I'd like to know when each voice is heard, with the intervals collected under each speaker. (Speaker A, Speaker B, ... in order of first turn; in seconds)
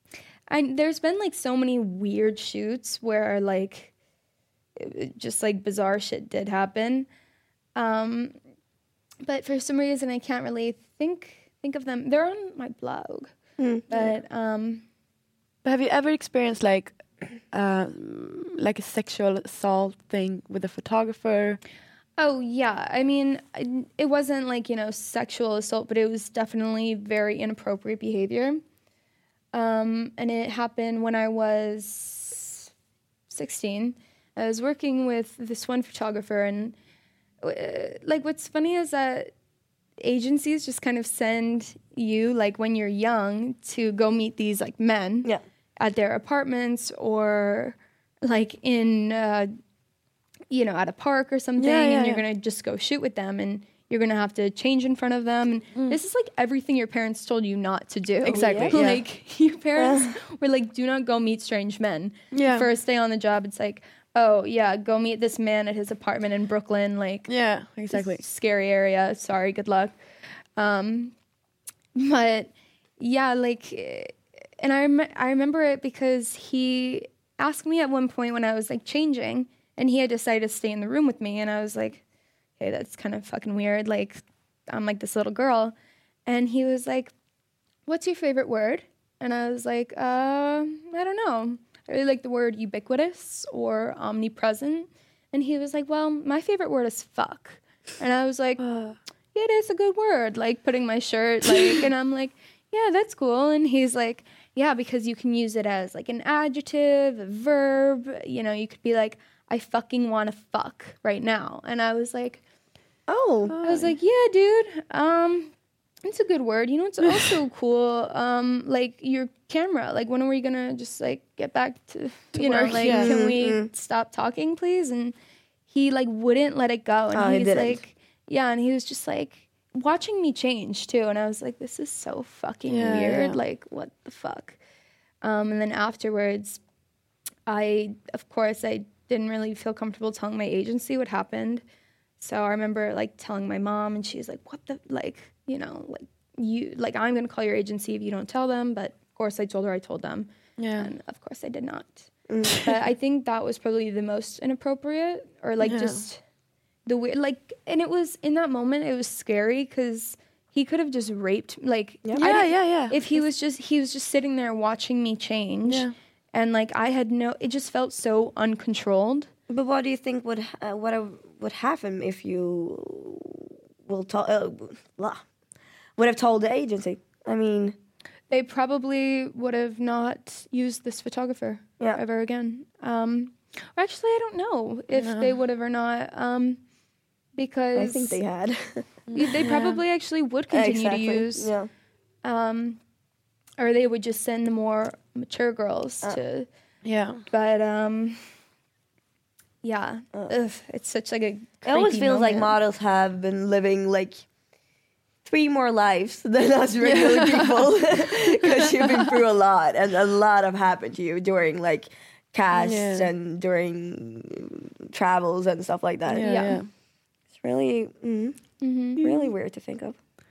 Speaker A: 0.5-3.9, 4.8-7.1, 7.8-8.3, 9.2-13.3, 13.9-14.8, 22.2-28.6, 29.5-32.7, 33.3-36.8, 37.4-39.3, 40.0-45.3, 45.8-49.5, 50.5-67.3, 67.9-70.0, 70.6-71.1, 72.0-82.0, 82.6-85.7, 86.2-87.1, 87.9-98.6, 99.3-112.4, 113.6-115.5, 116.0-125.1, 125.7-134.6, 135.2-136.6, 137.5-141.6, 142.2-156.2, 156.8-169.3, 178.3-186.6, 187.3-188.2, 189.1-191.5, 192.2-192.8, 193.6-196.5, 197.3-198.2, 199.6-202.5, 216.2-216.6, 218.6-219.3
Speaker B: 13.6-14.1, 58.3-58.8, 59.8-60.1, 113.1-113.5, 122.7-123.7, 127.1-127.8, 152.3-152.7, 169.5-175.2, 176.0-177.8, 187.7-188.9, 190.5-191.7, 201.6-204.2, 205.2-216.3, 217.4-218.4, 219.0-220.0
Speaker C: 15.6-17.0, 17.5-21.6, 51.6-52.2, 58.2-59.0, 62.3-62.7, 67.2-68.2, 98.6-99.0, 113.5-114.0, 117.0-117.4, 122.3-123.2, 132.7-133.4, 150.6-150.9, 155.6-156.0, 162.2-163.2, 165.7-165.9, 184.9-185.4, 189.1-189.8, 196.8-197.2, 206.8-209.2, 212.5-213.1, 216.1-216.7